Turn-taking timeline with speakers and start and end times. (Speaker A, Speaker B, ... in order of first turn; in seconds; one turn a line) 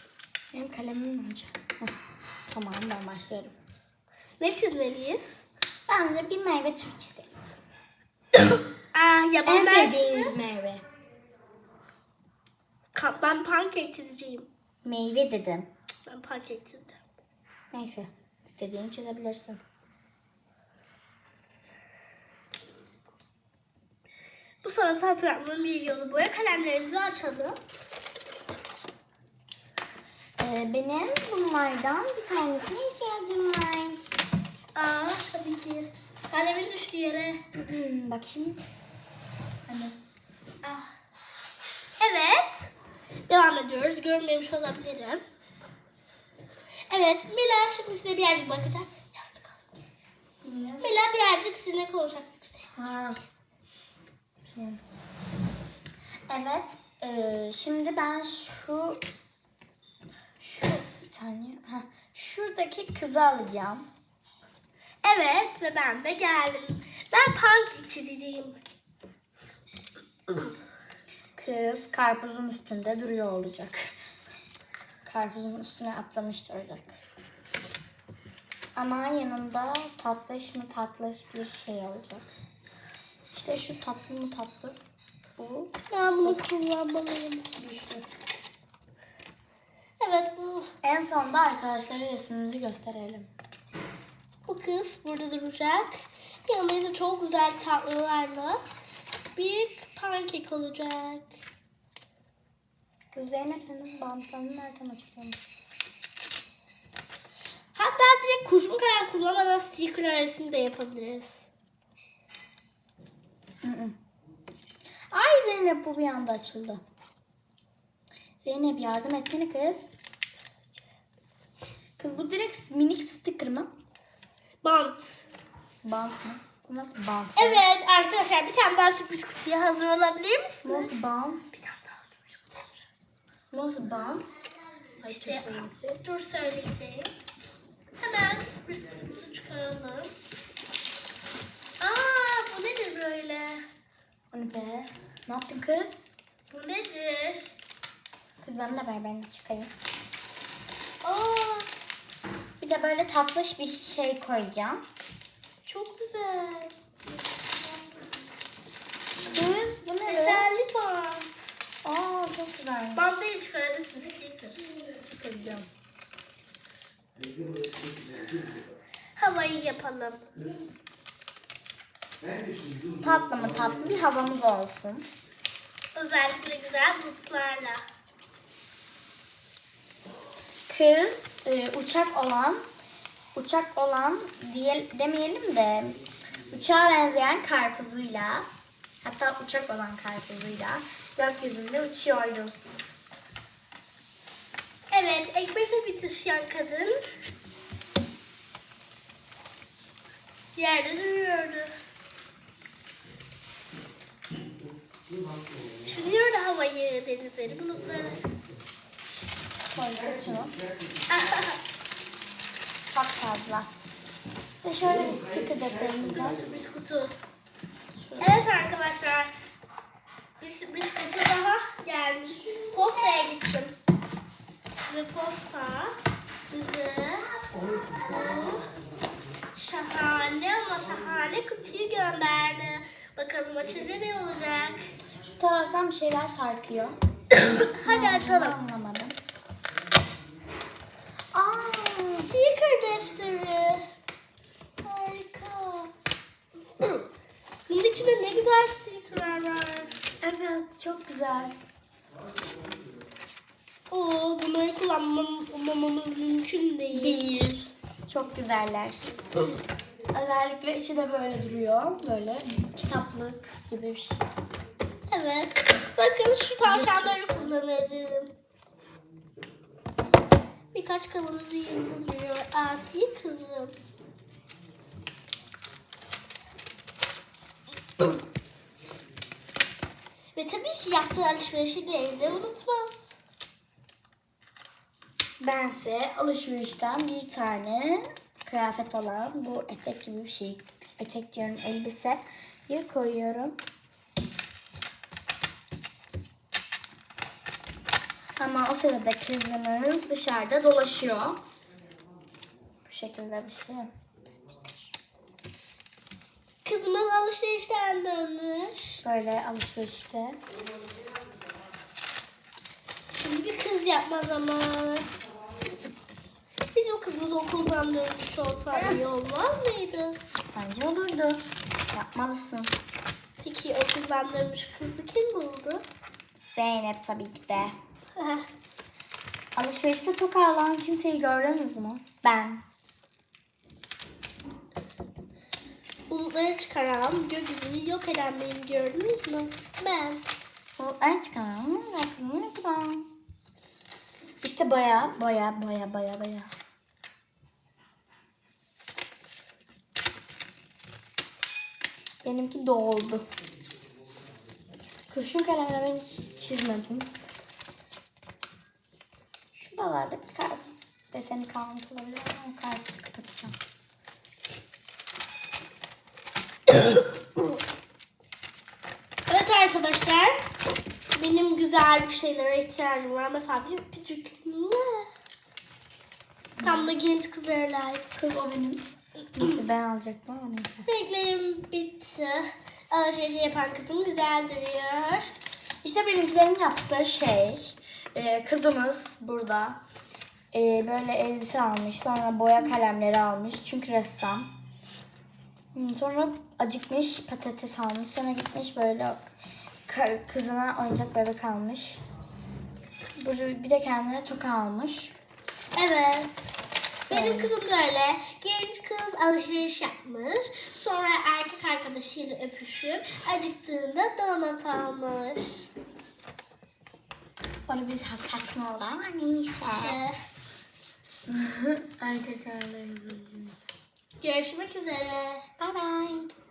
Speaker A: 0.5-1.9
Speaker A: 2.5-3.5
Speaker B: 4.4-5.4
Speaker A: 5.9-7.5
Speaker B: 8.4-10.4
Speaker A: 9.4-10.8
Speaker B: 12.9-14.5
Speaker A: 14.8-15.7
Speaker B: 16.1-17.0
Speaker A: 17.7-19.6
Speaker B: 24.6-27.6
Speaker A: 30.4-34.0
Speaker B: 34.8-37.5
Speaker A: 37.5-38.6
Speaker A: 39.7-40.0
Speaker B: 40.6-40.9
Speaker B: 42.0-42.7
Speaker B: 43.3-45.2
Speaker B: 46.9-49.7
Speaker A: 50.4-50.9
Speaker B: 50.8-52.7
Speaker A: 52.8-53.2
Speaker A: 54.4-54.8
Speaker A: 56.3-59.0
Speaker A: 60.4-63.9
Speaker B: 65.0-68.6
Speaker A: 71.4-73.9
Speaker A: 75.0-77.0
Speaker A: 78.8-82.2
Speaker A: 83.3-84.8
Speaker A: 85.4-86.4
Speaker B: 85.9-87.5
Speaker A: 87.6-88.1
Speaker B: 90.0-90.7
Speaker A: 90.8-93.3
Speaker B: 94.5-98.6
Speaker B: 99.4-101.3
Speaker A: 103.1-105.4
Speaker B: 107.8-111.5
Speaker A: 113.6-114.0
Speaker A: 115.1-116.8
Speaker A: 118.4-119.9
Speaker A: 122.0-123.7
Speaker B: 124.6-125.2
Speaker A: 125.8-127.7
Speaker B: 127.4-132.9
Speaker A: 130.6-131.4
Speaker A: 133.5-134.3
Speaker A: 135.0-136.0
Speaker B: 135.0-137.1
Speaker B: 138.0-140.1
Speaker B: 141.8-143.6
Speaker A: 144.3-146.0
Speaker B: 146.5-147.5
Speaker A: 148.4-149.7
Speaker B: 151.0-151.7
Speaker A: 152.6-154.8
Speaker B: 155.7-156.8
Speaker A: 159.3-160.5
Speaker B: 160.1-161.4
Speaker A: 161.8-163.2
Speaker B: 162.9-164.7
Speaker A: 165.1-165.7
Speaker B: 169.2-170.2
Speaker A: 173.0-175.1
Speaker B: 175.9-177.8
Speaker A: 180.7-182.6
Speaker A: 183.3-188.5
Speaker A: 189.0-192.5
Speaker B: 194.9-197.0
Speaker B: 200.6-201.7
Speaker B: 205.8-208.2
Speaker A: 209.7-210.6
Speaker B: 211.1-211.6
Speaker A: 212.9-213.7
Speaker A: 214.6-216.4
Speaker B: 216.1-217.2
Speaker A: 218.0-218.4
Speaker B: 218.2-219.3
Speaker B: 220.4-223.7
Speaker B: 224.9-225.9
Speaker B: 226.5-228.7
Speaker B: 229.5-234.8
Speaker A: 235.3-236.9
Speaker B: 237.3-238.6
Speaker A: 237.8-239.2
Speaker A: 241.3-242.3
Speaker B: 242.2-243.9
Speaker B: 244.8-245.9
Speaker B: 247.7-249.9
Speaker A: 250.2-251.6
Speaker B: 253.9-257.2
Speaker A: 256.9-259.1
Speaker A: 260.1-264.3
Speaker B: 265.1-268.3
Speaker A: 266.6-267.2
Speaker B: 270.7-273.8
Speaker B: 280.4-283.2
Speaker A: 285.4-293.6
Speaker A: 298.4-301.4
Speaker A: 302.9-304.8
Speaker B: 306.6-309.0
Speaker A: 309.0-310.4
Speaker B: 313.2-315.1
Speaker B: 316.7-320.2
Speaker A: 320.5-322.7
Speaker B: 323.4-325.8
Speaker A: 326.4-327.8
Speaker B: 328.2-328.5
Speaker A: 329.6-332.6
Speaker B: 336.1-340.2
Speaker A: 340.8-343.1
Speaker A: 344.4-346.5
Speaker A: 352.2-353.3
Speaker A: 355.1-357.1
Speaker A: 359.6-363.6
Speaker B: 369.3-370.4
Speaker B: 371.1-375.1
Speaker A: 376.6-376.9
Speaker B: 376.6-378.1
Speaker A: 378.2-378.9
Speaker A: 379.4-380.9
Speaker B: 380.9-385.3
Speaker A: 385.8-389.8
Speaker A: 390.5-394.5
Speaker A: 395.7-399.2
Speaker A: 399.9-402.0
Speaker A: 403.2-405.1
Speaker B: 405.8-406.5
Speaker A: 407.1-407.5
Speaker B: 407.1-415.7
Speaker A: 417.7-420.0
Speaker B: 419.7-420.2
Speaker A: 421.3-423.6
Speaker B: 424.2-425.4
Speaker A: 425.6-426.3